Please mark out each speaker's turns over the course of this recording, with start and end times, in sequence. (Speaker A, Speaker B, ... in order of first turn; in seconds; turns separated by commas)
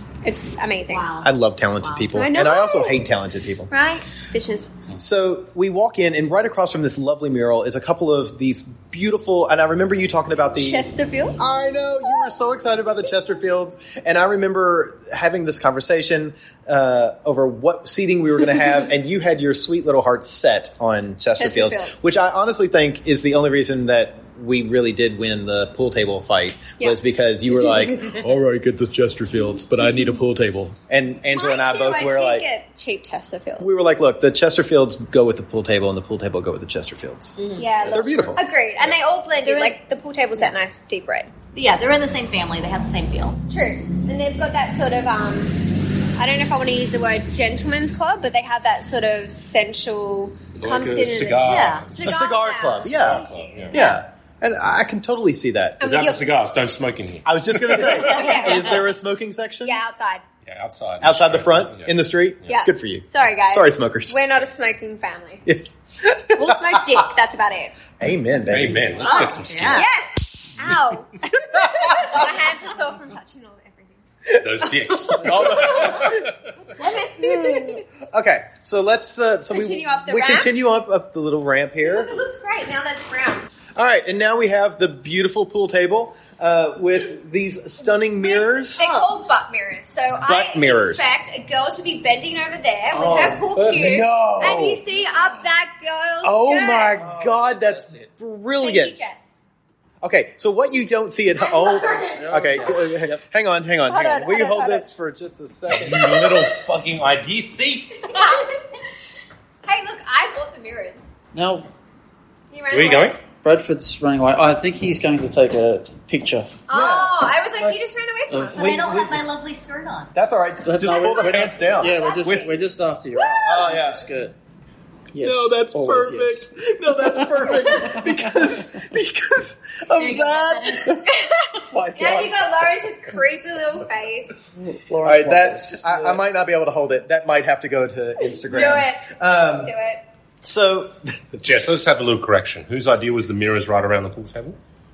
Speaker A: 0.2-1.0, Speaker B: 0.9-2.1, Speaker C: 1.2-3.7, Speaker A: 2.1-2.9, Speaker A: 3.7-4.7, Speaker C: 5.0-32.5, Speaker A: 10.6-11.4, Speaker A: 21.4-22.0, Speaker A: 31.3-33.7, Speaker C: 33.6-37.4, Speaker B: 37.4-37.7, Speaker A: 37.6-41.3, Speaker D: 37.7-39.0, Speaker C: 37.9-38.4, Speaker B: 39.4-39.8, Speaker B: 41.5-43.4, Speaker A: 43.5-54.0, Speaker D: 50.5-52.2, Speaker B: 51.0-51.9, Speaker C: 52.0-55.8, Speaker D: 52.8-53.8, Speaker A: 55.8-56.2, Speaker D: 55.8-58.1, Speaker C: 57.2-59.8, Speaker A: 57.9-58.8, Speaker A: 59.6-60.2, Speaker D: 60.5-62.6, Speaker C: 61.0-64.2, Speaker A: 62.5-65.4, Speaker C: 65.5-67.0, Speaker A: 66.3-67.8, Speaker C: 68.0-69.1, Speaker D: 68.5-69.9, Speaker B: 69.0-69.9, Speaker A: 69.1-74.0, Speaker C: 71.5-72.2, Speaker D: 74.4-76.3, Speaker C: 74.6-76.2, Speaker A: 75.6-76.2, Speaker A: 76.8-77.8, Speaker C: 77.2-82.1, Speaker A: 79.5-80.5, Speaker A: 81.8-83.5, Speaker C: 83.8-88.9, Speaker A: 88.2-96.9, Speaker B: 88.8-89.2, Speaker C: 90.2-91.1, Speaker E: 92.9-94.0, Speaker C: 93.7-94.8, Speaker C: 96.2-99.1, Speaker E: 96.9-98.1, Speaker A: 98.6-99.2, Speaker C: 100.0-106.6, Speaker A: 101.3-102.5, Speaker E: 102.1-103.2, Speaker A: 103.9-104.8, Speaker D: 105.7-108.1, Speaker A: 108.1-108.5, Speaker A: 109.6-111.0, Speaker E: 111.3-111.7, Speaker A: 112.5-113.2, Speaker D: 112.7-113.2, Speaker E: 113.4-116.6, Speaker A: 116.7-118.7, Speaker C: 116.7-117.8, Speaker E: 118.3-118.8, Speaker B: 118.5-120.1, Speaker C: 118.5-119.2, Speaker C: 120.1-122.5, Speaker E: 120.6-124.3, Speaker A: 120.8-122.5, Speaker A: 123.2-123.6, Speaker C: 123.4-124.0, Speaker E: 125.1-126.5, Speaker C: 125.2-131.0, Speaker E: 127.0-128.5, Speaker B: 130.0-130.8, Speaker A: 131.1-134.4, Speaker E: 131.6-132.5, Speaker E: 134.6-136.2, Speaker C: 135.0-139.7, Speaker A: 138.5-140.0, Speaker C: 140.4-141.2, Speaker D: 141.4-144.6